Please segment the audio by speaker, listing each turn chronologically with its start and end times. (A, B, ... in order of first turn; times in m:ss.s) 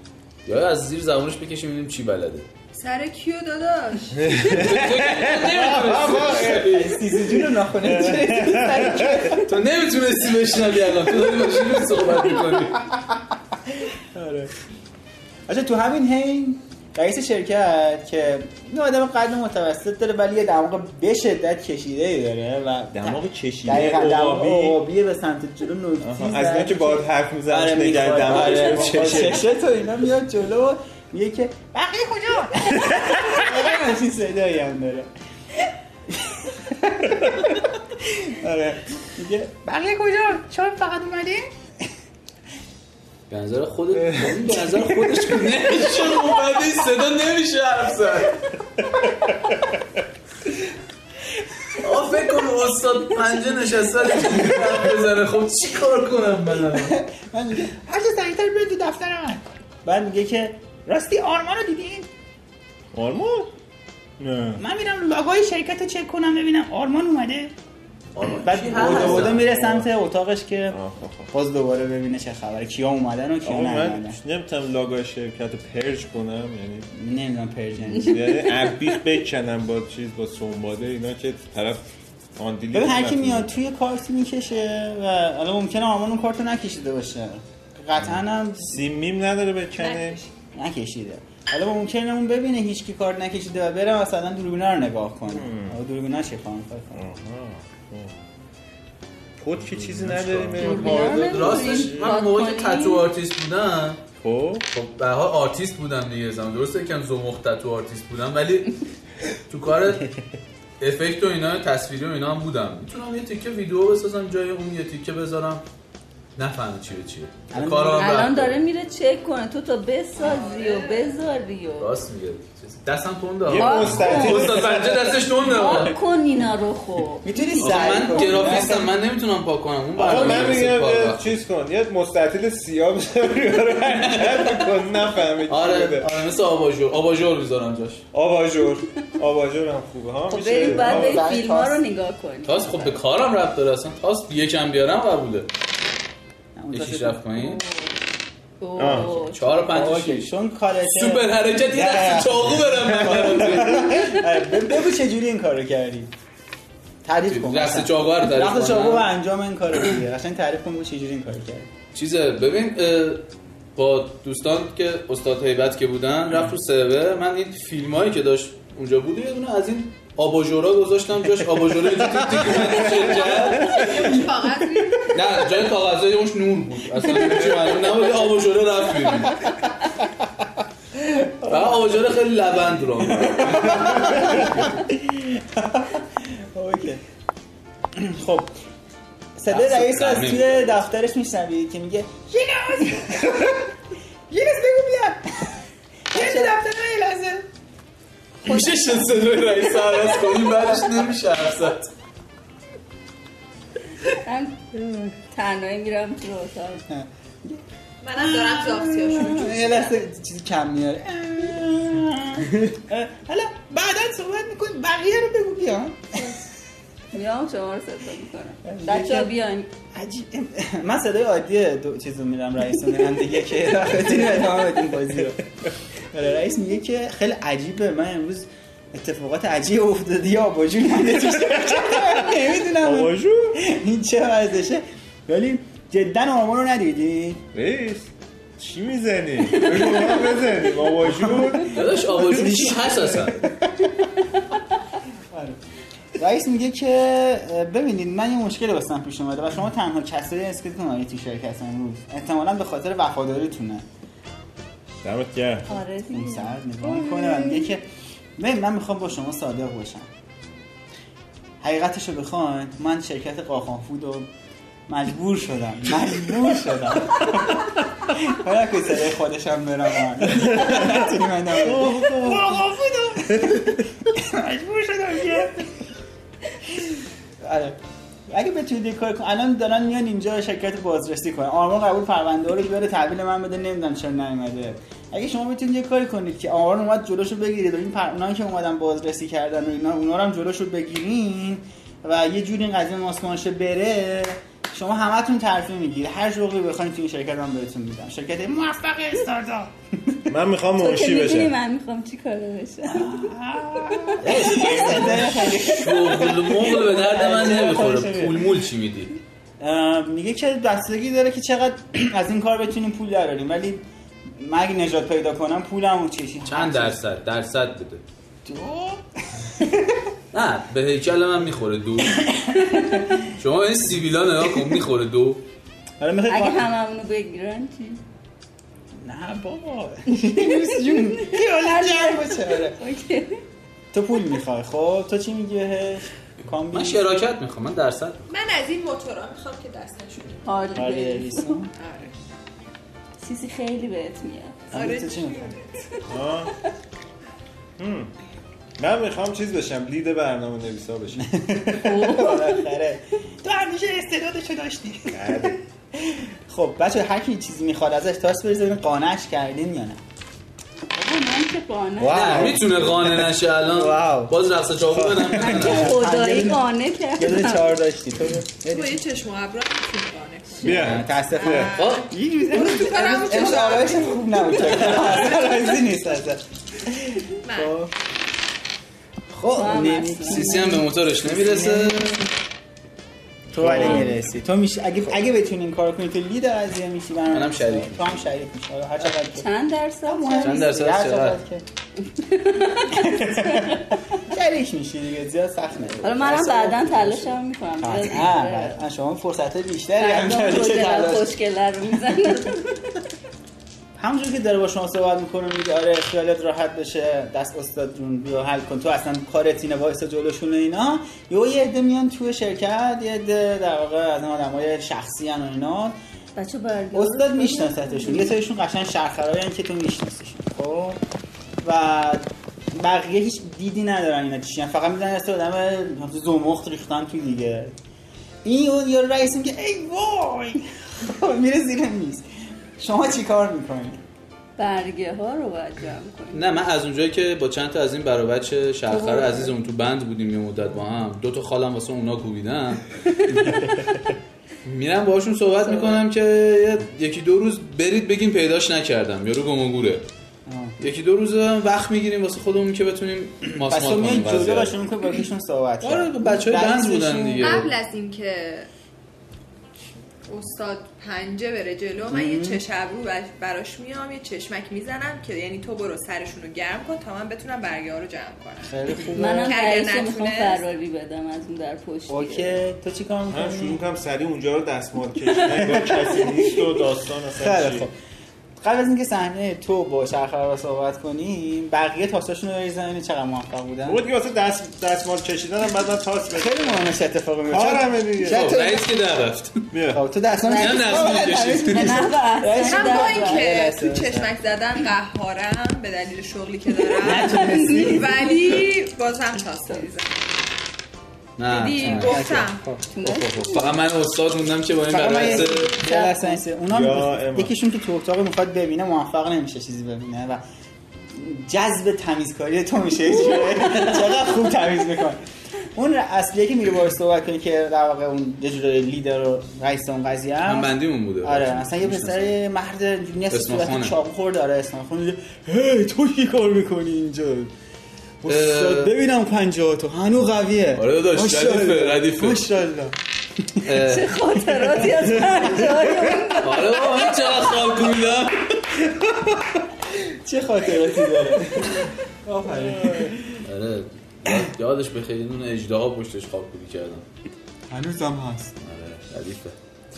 0:00.4-0:02.4 A
0:02.7-0:04.4 B
0:04.1-0:06.8 C
0:04.4-0:07.2 A
0:06.4-0:09.5 D
0:07.7-0:09.4 C
0:09.4-0:12.9 A
0:13.7-0:14.5 D
0:15.5-0:35.1 D
0:22.9-0:24.8 C
0:26.0-0:29.5 C
0:32.9-0:33.3 C
0:36.1-0:41.5 D
0:43.3-0:48.5 A
0:43.9-0:44.6 C
0:51.8-0:57.0 A
0:56.8-1:02.1 D
1:02.9-1:03.5 C
1:04.2-1:04.6 C
1:04.6-1:07.5 D
1:08.1-1:09.5 A
1:08.4-1:10.8 D
1:08.7-1:09.9 C
1:10.7-1:11.3 C
1:11.3-1:14.2 D
1:13.4-1:16.9 C
1:16.9-1:18.4 D
1:17.9-1:21.8 C
1:22.4-1:23.5 C
1:22.7-1:28.8 D
1:28.0-1:30.2 C
1:29.8-1:30.3 B
1:30.5-1:37.0 D
1:35.3-1:35.7 C
1:36.9-1:38.1 C
1:39.4-1:42.2 C
1:39.6-1:44.0 A
1:40.6-1:43.0 E
1:44.2-1:44.6 C
1:44.7-1:48.8 A
1:49.5-1:50.1 A
1:50.8-1:55.6 A
1:56.4-1:58.6 A
1:57.5-1:58.2 D
1:58.0-2:01.9 E
2:00.2-2:01.2 B
2:01.8-2:06.0 A
2:03.4-2:05.3 C
2:03.6-2:04.6 E
2:05.4-2:08.8 E
2:07.2-2:09.0 D
2:07.6-2:11.4 A
2:10.0-2:16.1 C
2:13.9-2:14.7 A
2:15.5-2:18.0 A
2:18.1-2:21.2 C
2:20.3-2:22.9 E
2:20.5-2:21.8 D
2:22.4-2:25.5 A
2:26.6-2:27.2 D
2:26.7-2:27.6 A
2:27.3-2:28.0 E
2:28.6-2:29.5 E
2:28.8-2:29.1 C
2:28.8-2:30.3 A
2:29.7-2:36.1 D
2:30.8-2:34.2 A
2:33.1-2:33.8 C
2:37.0-2:41.7 D
2:37.3-2:39.1 A
2:41.9-2:43.2 A
2:43.8-2:54.1 A
2:52.4-2:53.3 C
2:52.9-2:55.2 B
2:55.1-2:59.5 A
3:01.2-3:01.7 D
3:01.4-3:04.7 A
3:03.0-3:07.0 D
3:07.9-3:08.5 D
3:09.4-3:13.7 D
3:09.5-3:10.8 A
3:14.3-3:15.5 D
3:16.1-3:17.5 D
3:18.4-3:21.9 A
3:24.1-3:26.8 E
3:26.9-3:27.6 D
3:28.0-3:29.9 B
3:28.2-3:36.4 D
3:37.1-3:39.7 E
3:38.6-3:39.3 D
3:39.9-3:45.4 D
3:46.1-3:57.4 D
3:51.5-3:53.6 C
3:57.5-4:01.8 C
3:59.5-4:00.3 E
3:59.6-4:00.3 D
4:00.8-4:04.0 D
4:01.7-4:03.5 A
4:02.4-4:02.7 C
4:05.3-4:05.6 D
4:06.2-4:13.8 D
4:15.0-4:15.7 C
4:15.7-4:17.7 E
4:16.1-4:17.8 D
4:18.4-4:20.1 D
4:21.6-4:24.3 D
4:24.9-4:35.7 D
4:30.4-4:32.6 C
4:33.3-4:33.6 C
4:36.7-5:00.3 D
5:00.3-5:01.5 C
5:00.8-5:03.3 E
5:02.8-5:08.5 D
5:03.8-5:04.9 E
5:04.2-5:09.1 A
5:07.2-5:07.9 C
5:09.6-5:17.0 D
5:16.4-5:18.0 A
5:18.4-5:20.1 D
5:20.3-5:22.3 A
5:22.0-5:23.3 D
5:23.3-5:25.4 A
5:26.0-5:26.7 D
5:26.3-5:28.0 E
5:29.0-5:32.8 D
5:30.1-5:33.4 E
5:33.9-5:37.0 D
5:36.7-5:38.2 A
5:38.3-5:40.7 B
5:40.4-5:41.6 E
5:40.7-5:41.7 D
5:41.8-5:42.1 B
5:43.2-5:44.7 E
5:44.7-5:45.7 B
5:44.7-5:45.5 D
5:46.1-5:46.5 C
5:47.8-5:48.1 C
5:48.8-5:51.4 C
5:51.2-6:00.0 D
5:51.7-5:52.7 E
5:55.1-5:55.6 C
6:00.9-6:02.6 E
6:02.0-6:03.2 C
6:02.0-6:04.3 D
6:02.1-6:06.0 A
6:04.9-6:05.6 C
6:05.3-6:09.0 D
6:05.4-6:07.8 E
6:08.7-6:10.9 B
6:10.6-6:17.9 D
6:10.6-6:11.7 C
6:11.5-6:14.2 B
6:11.7-6:12.1 A
6:17.4-6:17.8 B
6:19.3-6:22.2 D
6:19.5-6:20.8 E
6:20.2-6:22.3 A
6:23.5-6:24.2 C
6:23.5-6:29.5 D
6:23.7-6:24.1 A
6:27.3-6:28.2 A
6:29.4-6:30.7 E
6:30.0-6:31.6 D
6:30.4-6:31.4 A
6:32.0-6:34.0 E
6:32.8-6:41.3 D
6:36.0-6:38.8 E
6:40.0-6:43.0 E
6:44.0-6:56.0 D
6:56.4-6:58.4 E
6:56.9-7:01.0 D
7:01.6-7:07.7 D
7:08.4-7:12.2 D
7:12.8-7:14.0 D
7:14.6-7:16.5 E
7:16.3-7:23.4 A
7:18.9-7:19.5 E
7:23.3-7:23.6 D
7:24.6-7:30.0 A
7:25.6-7:26.0 E
7:30.5-7:30.7 D
7:30.8-7:34.7 A
7:33.7-7:37.6 D
7:35.8-7:37.7 A
7:37.4-7:38.7 B
7:40.3-7:50.6 B
7:42.1-7:42.6 D
7:48.6-7:49.6 D
7:49.1-7:52.6 E
7:52.1-7:53.8 D
7:53.3-7:57.9 C
7:55.4-7:56.8 D
7:57.4-7:57.9 D
7:58.6-8:04.0 D
8:03.9-8:06.9 C
8:06.3-8:09.0 D
8:07.5-8:08.5 C
8:08.2-8:09.5 A
8:09.7-8:10.0 C
8:09.9-8:14.3 D
8:10.4-8:13.5 E
8:10.5-8:12.1 A
8:12.6-8:20.2 B
8:17.0-8:18.2 D
8:17.0-8:18.3 E
8:21.4-8:22.2 A
8:21.4-8:22.7 B
8:21.8-8:22.8 D
8:22.9-8:23.7 E
8:23.0-8:25.8 A
8:24.9-8:30.4 D
8:25.7-8:26.4 E
8:26.7-8:27.5 C
8:31.1-8:35.2 D
8:33.4-8:33.9 E
8:35.7-8:47.5 D
8:40.4-8:42.3 A
8:43.3-8:43.9 A
8:48.2-8:53.7 D
8:48.2-8:48.9 A
8:50.7-8:52.4 A
8:53.6-8:54.2 A
8:53.8-8:57.4 E
8:54.5-8:56.4 D
8:56.4-8:58.7 A
8:59.9-9:03.4 D
9:02.5-9:03.1 C
9:03.4-9:07.0 A
9:07.7-9:08.6 D
9:08.6-9:09.5 A